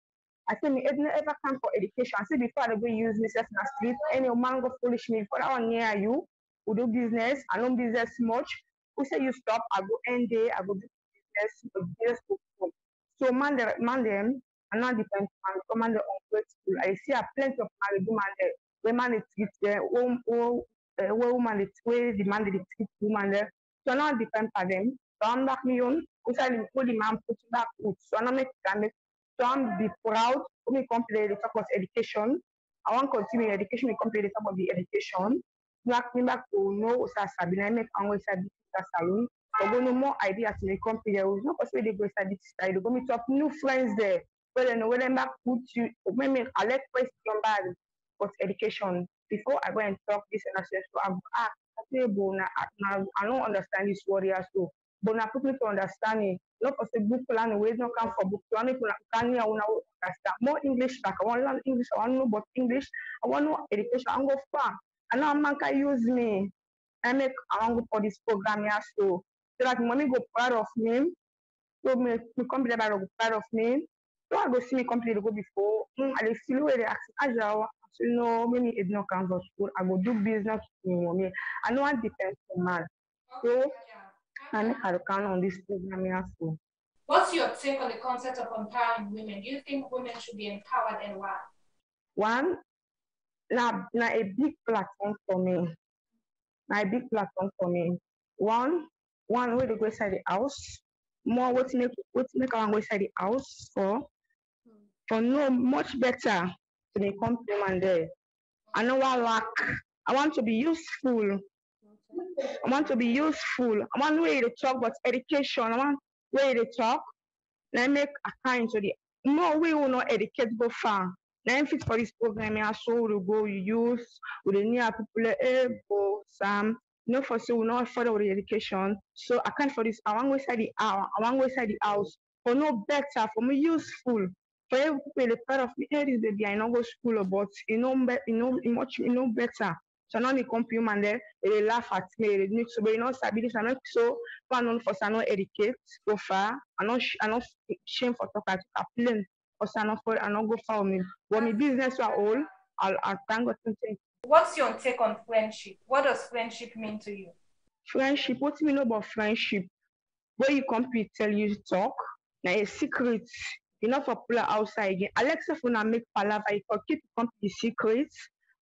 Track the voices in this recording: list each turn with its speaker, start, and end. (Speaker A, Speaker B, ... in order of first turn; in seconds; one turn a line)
Speaker A: 0.5-66.5
Speaker A: 67.0-71.1
Speaker A: 71.8-82.9
Speaker B: 83.3-84.8
Speaker A: 83.4-83.7
Speaker A: 84.5-86.6
Speaker B: 87.1-91.4
Speaker A: 92.2-92.6
Speaker A: 93.5-95.7
Speaker A: 96.7-104.0
Speaker A: 105.1-108.1
Speaker A: 108.7-111.4
Speaker A: 112.4-117.0
Speaker A: 117.7-154.0
Speaker B: 151.3-152.5
Speaker B: 154.2-157.3
Speaker A: 157.9-159.7
Speaker A: 160.4-168.2